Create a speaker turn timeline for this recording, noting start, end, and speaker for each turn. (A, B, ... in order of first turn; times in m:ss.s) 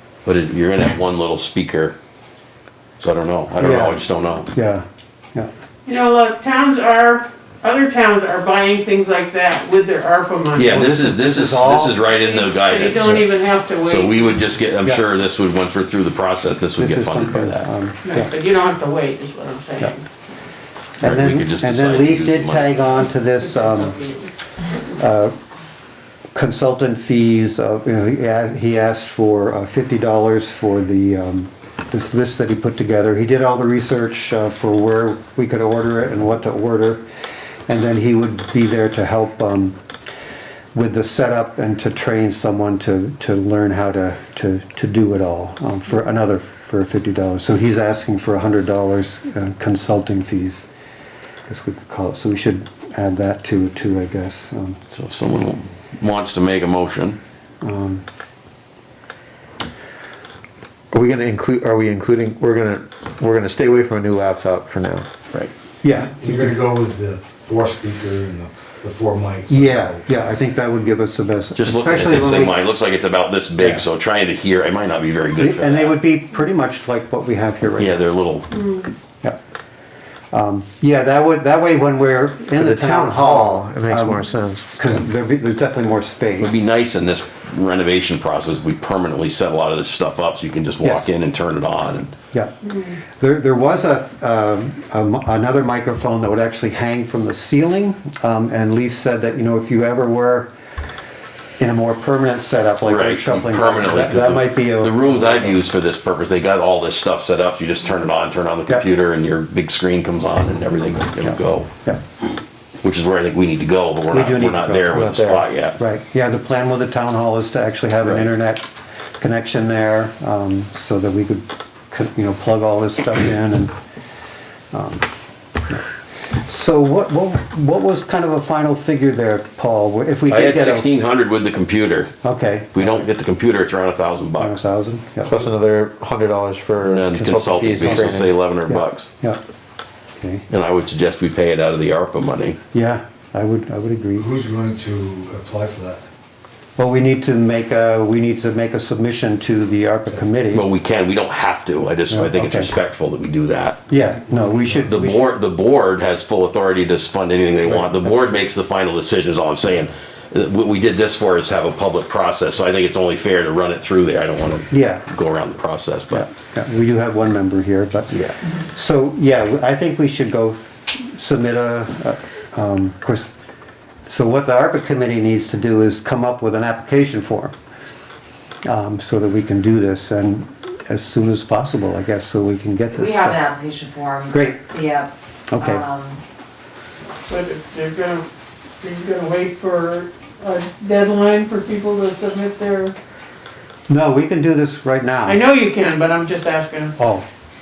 0:00.2-0:02.0 A
0:03.0-0:04.5 A
0:03.6-0:05.5 B
0:05.8-0:10.8 C
0:10.6-0:13.3 A
0:10.6-0:12.0 B
0:12.1-0:14.3 C
0:13.8-0:17.7 A
0:16.8-0:18.3 B
0:18.0-0:20.0 C
0:21.0-0:24.0 B
0:21.0-0:23.0 A
0:23.4-0:24.3 C
0:25.0-0:25.3 B
0:26.3-0:37.0 B
0:37.7-0:39.8 B
0:40.7-0:50.6 B
0:51.5-0:54.8 B
0:54.9-0:57.2 A
0:57.6-0:58.0 B
1:00.9-1:05.1 D
1:05.8-1:06.6 B
1:06.0-1:10.2 E
1:09.5-1:12.6 B
1:11.6-1:16.0 A
1:13.6-1:13.8 E
1:15.4-1:18.0 B
1:17.8-1:18.6 A
1:18.5-1:18.8 C
1:20.3-1:24.2 B
1:22.6-1:24.7 D
1:24.8-1:26.6 B
1:26.4-1:32.1 A
1:30.8-1:31.1 B
1:32.3-1:40.5 B
1:41.6-1:45.6 B
1:42.8-1:51.7 A
1:51.2-1:52.0 B
1:52.8-1:55.8 A
1:54.1-1:55.1 B
1:54.9-1:55.4 D
1:55.8-1:58.7 B
1:59.2-2:03.7 B
2:04.7-2:05.1 B
2:05.6-2:10.9 B
2:10.3-2:12.1 A
2:12.2-2:13.1 B
2:12.7-2:14.6 A
2:14.4-2:15.4 B
2:15.2-2:18.3 D
2:16.8-2:19.1 A
2:17.2-2:18.1 B
2:18.7-2:19.4 B
2:20.2-2:20.4 B
2:20.5-2:22.6 A
2:22.7-2:24.3 B
2:24.2-2:26.0 E
2:26.8-2:30.6 B
2:30.5-2:33.8 A
2:32.1-2:32.7 B
2:33.9-2:35.3 B
2:34.4-2:34.8 E
2:34.8-2:46.3 A
2:37.6-2:38.4 B
2:44.7-2:45.0 B
2:46.1-2:53.3 B
2:54.0-2:57.5 B
2:58.6-3:03.4 B
3:02.9-3:06.2 F
3:04.3-3:04.7 B
3:05.5-3:05.8 B
3:07.3-3:08.3 C
3:08.8-3:12.9 C
3:13.9-3:15.4 B
3:15.2-3:16.9 C
3:17.0-3:17.2 B